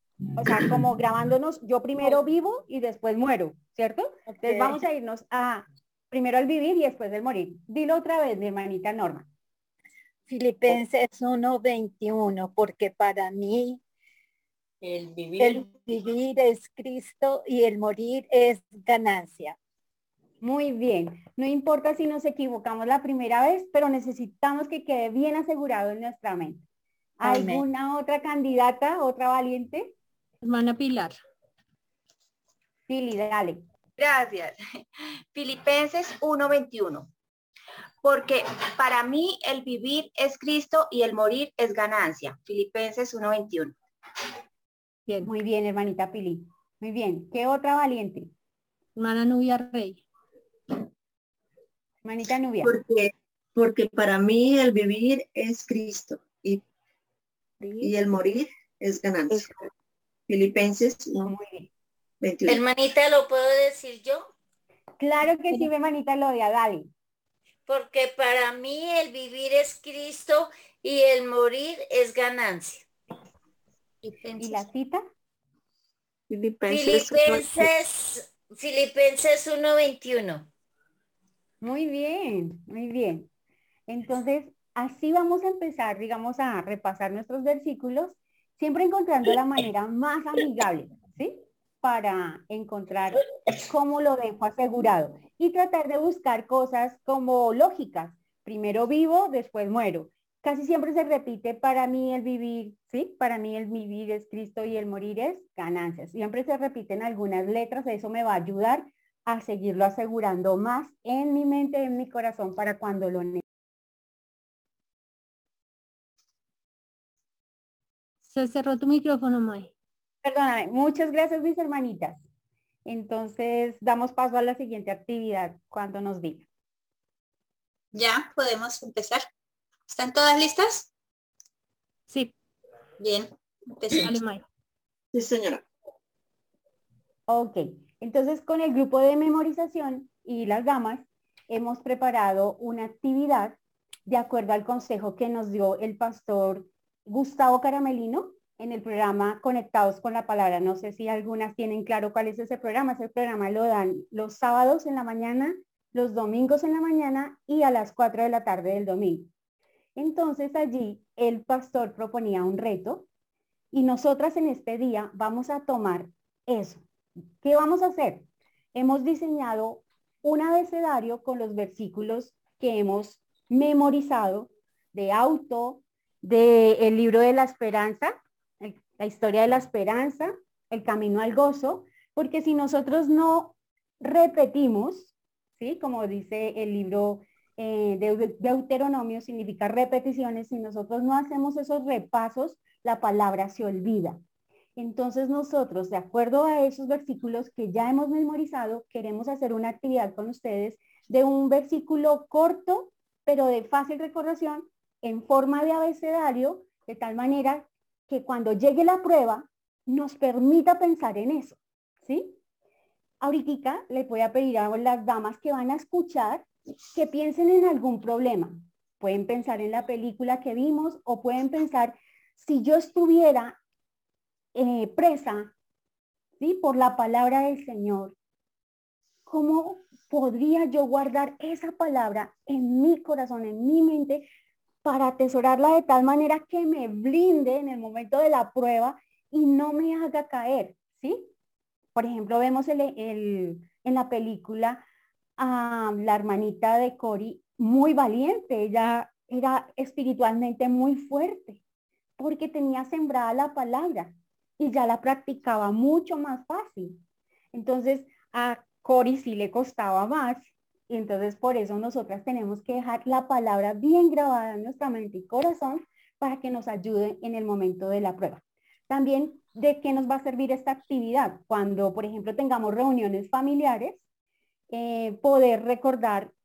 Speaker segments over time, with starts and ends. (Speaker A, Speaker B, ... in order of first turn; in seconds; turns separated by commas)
Speaker A: 0.4-9.3, Speaker B: 4.3-4.7, Speaker B: 10.3-13.8, Speaker B: 15.3-19.6, Speaker A: 20.4-26.6, Speaker A: 27.2-29.9, Speaker B: 27.2-27.6, Speaker C: 30.4-31.2, Speaker A: 32.9-33.6, Speaker D: 34.0-34.6, Speaker D: 35.3-37.1, Speaker D: 38.0-43.7, Speaker C: 45.0-45.3, Speaker A: 45.2-48.3, Speaker C: 48.9-50.0, Speaker A: 52.0-52.8, Speaker E: 52.6-56.6, Speaker E: 57.8-59.6, Speaker E: 60.3-61.3, Speaker A: 61.2-61.7, Speaker E: 62.2-62.6, Speaker F: 62.5-64.3, Speaker A: 65.0-66.9, Speaker F: 67.7-72.8, Speaker F: 74.0-74.7, Speaker A: 74.4-75.0, Speaker E: 76.3-77.7, Speaker F: 76.7-80.5, Speaker A: 81.6-83.3, Speaker A: 83.9-113.4, Speaker C: 118.2-119.7, Speaker A: 120.2-122.2, Speaker A: 122.8-126.5, Speaker G: 127.9-129.3, Speaker G: 129.9-130.9, Speaker C: 132.1-132.3, Speaker G: 133.0-134.2, Speaker C: 133.9-134.4, Speaker E: 135.1-135.6, Speaker A: 137.3-159.3, Speaker A: 159.9-163.1, Speaker A: 163.7-166.8, Speaker A: 167.4-194.2, Speaker A: 194.8-212.4, Speaker A: 213.2-223.6, Speaker A: 224.5-225.5, Speaker A: 226.4-228.1, Speaker A: 229.3-234.2, Speaker A: 234.8-241.3, Speaker A: 241.9-244.8, Speaker A: 245.4-251.6, Speaker A: 252.2-257.0, Speaker A: 257.5-274.0, Speaker A: 274.7-276.3